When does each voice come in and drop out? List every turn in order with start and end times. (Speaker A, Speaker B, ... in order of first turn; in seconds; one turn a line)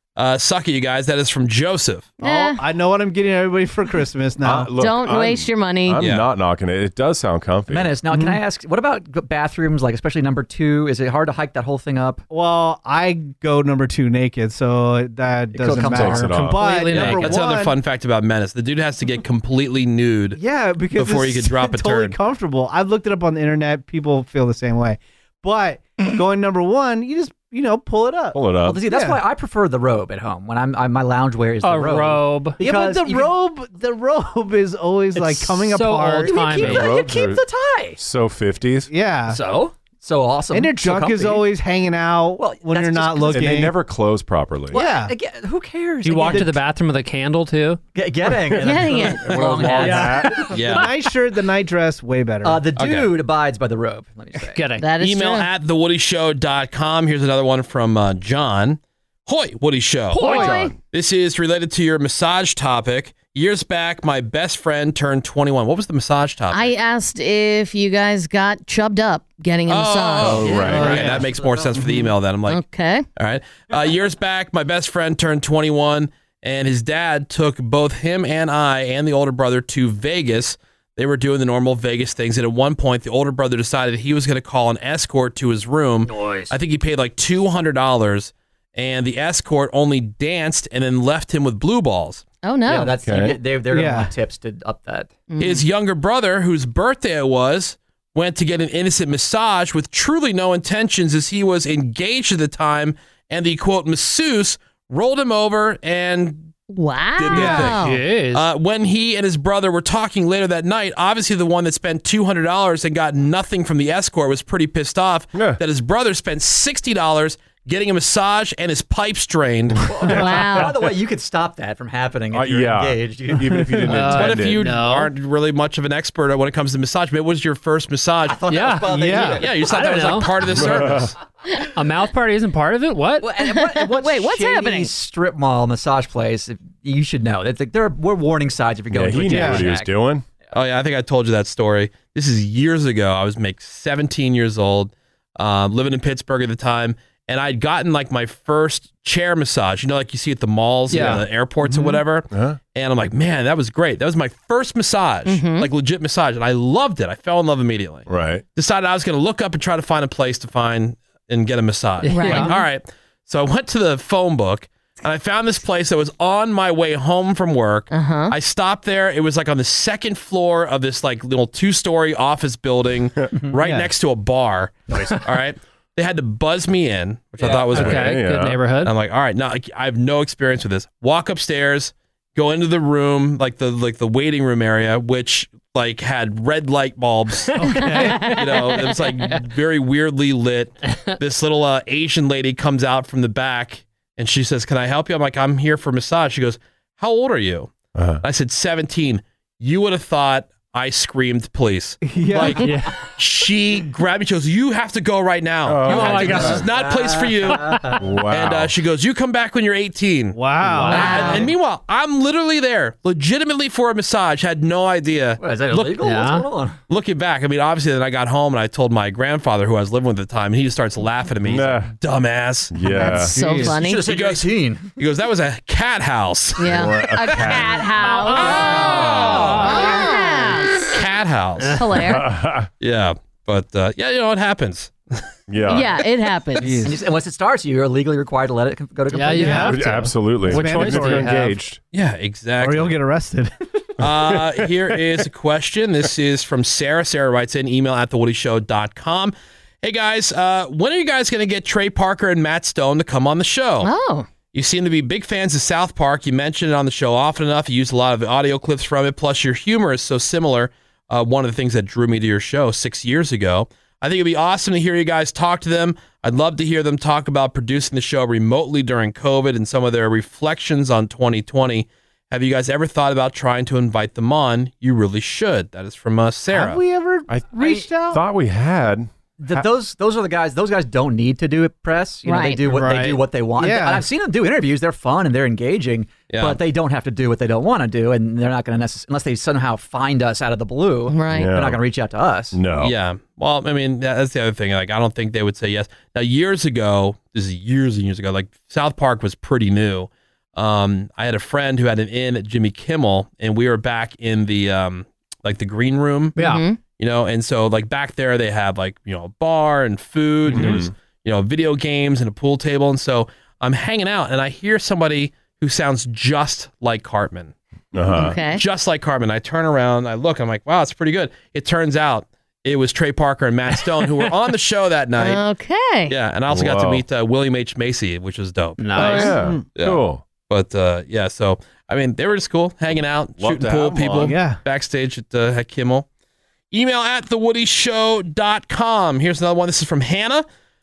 Speaker A: 0.1-2.1
Speaker B: 2.2-2.6
Speaker C: 2.2-4.7
Speaker D: 4.4-7.9
Speaker B: 4.8-6.0
Speaker A: 6.0-6.3
Speaker E: 7.7-12.2
Speaker C: 8.1-8.4
Speaker C: 12.3-17.8
Speaker E: 15.5-16.5
Speaker D: 15.8-16.6
Speaker F: 16.3-17.4
Speaker A: 16.9-20.4
Speaker C: 20.4-29.2
Speaker A: 20.9-22.2
Speaker D: 28.3-28.8
Speaker E: 28.6-33.3
Speaker F: 31.6-32.6
Speaker C: 32.6-36.6
Speaker F: 35.2-37.0
Speaker E: 36.3-38.0
Speaker D: 36.6-37.4
Speaker D: 38.0-38.9
Speaker C: 38.9-39.4
Speaker F: 39.3-39.7
Speaker E: 40.0-41.5
Speaker C: 40.5-43.7
Speaker E: 42.4-43.6
Speaker D: 43.3-44.8
Speaker E: 44.7-46.6
Speaker C: 44.7-45.1
Speaker F: 46.0-47.8
Speaker C: 46.2-46.6
Speaker E: 47.9-50.5
Speaker B: 48.6-49.4
Speaker D: 49.1-50.5
Speaker F: 49.6-50.9
Speaker C: 49.8-52.7
Speaker A: 50.5-50.9
Speaker E: 52.4-54.6
Speaker A: 52.8-53.1
Speaker F: 54.5-54.9
Speaker B: 54.8-55.5
Speaker A: 55.0-66.7
Speaker F: 60.1-60.5
Speaker B: 60.2-60.7
Speaker B: 66.5-70.5
Speaker A: 69.7-72.6
Speaker D: 70.2-71.1
Speaker E: 70.4-72.0
Speaker F: 70.5-70.8
Speaker C: 70.6-71.1
Speaker B: 72.5-73.0
Speaker A: 73.2-92.2
Speaker F: 86.0-86.5
Speaker B: 92.4-92.9
Speaker E: 92.7-95.1
Speaker D: 93.0-93.4
Speaker C: 93.7-94.1
Speaker B: 95.3-95.6
Speaker A: 95.4-106.5
Speaker B: 106.7-108.0
Speaker A: 107.2-119.8
Speaker C: 107.3-107.8
Speaker F: 107.5-108.5
Speaker D: 115.3-115.6
Speaker E: 119.8-123.9
Speaker B: 120.0-120.8
Speaker D: 122.3-124.6
Speaker F: 123.9-125.1
Speaker A: 124.1-128.4
Speaker E: 128.2-129.9
Speaker F: 128.5-130.3
Speaker A: 129.3-131.1
Speaker D: 130.5-131.1
Speaker F: 131.7-133.3
Speaker E: 133.2-139.9
Speaker B: 133.4-134.9
Speaker D: 138.9-140.2
Speaker C: 139.3-139.7
Speaker A: 140.5-178.3
Speaker F: 150.9-151.2
Speaker D: 151.7-152.6
Speaker B: 155.2-155.7
Speaker D: 158.1-158.4
Speaker F: 162.0-162.6
Speaker B: 162.1-162.6
Speaker B: 167.9-168.3
Speaker C: 173.5-173.9
Speaker E: 174.9-175.2
Speaker F: 177.4-178.9
Speaker D: 177.7-178.6
Speaker A: 178.8-216.0
Speaker F: 187.5-189.4
Speaker C: 187.6-188.3
Speaker D: 197.9-198.2
Speaker C: 202.0-202.8
Speaker F: 202.6-202.9
Speaker D: 205.7-206.6
Speaker F: 205.9-206.6
Speaker E: 206.3-208.0
Speaker D: 208.0-208.7
Speaker C: 210.3-211.3
Speaker F: 210.7-211.4
Speaker E: 210.7-211.5
Speaker B: 210.9-211.4
Speaker E: 215.4-216.8
Speaker F: 216.0-216.4
Speaker A: 216.9-222.8
Speaker D: 221.4-221.9
Speaker D: 222.7-223.5
Speaker B: 222.9-224.1
Speaker C: 222.9-223.7
Speaker E: 223.5-224.8
Speaker A: 224.0-226.7
Speaker B: 226.6-230.9
Speaker D: 226.6-227.8
Speaker F: 227.9-230.2
Speaker A: 228.3-230.0
Speaker A: 230.8-231.8
Speaker F: 231.6-231.8
Speaker B: 231.8-232.3
Speaker D: 231.9-232.7
Speaker A: 232.8-235.2
Speaker D: 235.5-235.9
Speaker B: 235.7-236.7
Speaker C: 236.6-237.0
Speaker E: 236.8-239.8
Speaker F: 239.1-241.6
Speaker C: 239.4-239.8
Speaker D: 239.7-241.8
Speaker C: 240.5-241.4
Speaker A: 241.9-243.0
Speaker C: 242.6-243.5
Speaker A: 244.0-253.9
Speaker D: 244.1-245.2
Speaker B: 253.8-254.3
Speaker A: 254.5-276.8
Speaker C: 276.5-278.2
Speaker D: 277.3-279.7
Speaker E: 279.4-292.6
Speaker B: 282.2-282.6
Speaker C: 282.6-284.1
Speaker A: 286.3-286.6
Speaker B: 291.1-291.5
Speaker D: 291.3-291.8
Speaker D: 292.5-292.9
Speaker A: 292.8-306.4
Speaker F: 306.4-306.6
Speaker B: 306.4-306.8
Speaker A: 307.0-317.5
Speaker D: 310.5-310.9
Speaker D: 317.9-318.4
Speaker B: 318.1-318.6
Speaker A: 318.3-325.4
Speaker B: 325.2-326.1
Speaker A: 326.1-336.1
Speaker D: 326.5-327.0
Speaker F: 328.8-329.4
Speaker D: 328.9-330.2
Speaker C: 329.3-329.6
Speaker D: 333.4-334.4
Speaker C: 334.2-334.6
Speaker A: 336.7-340.4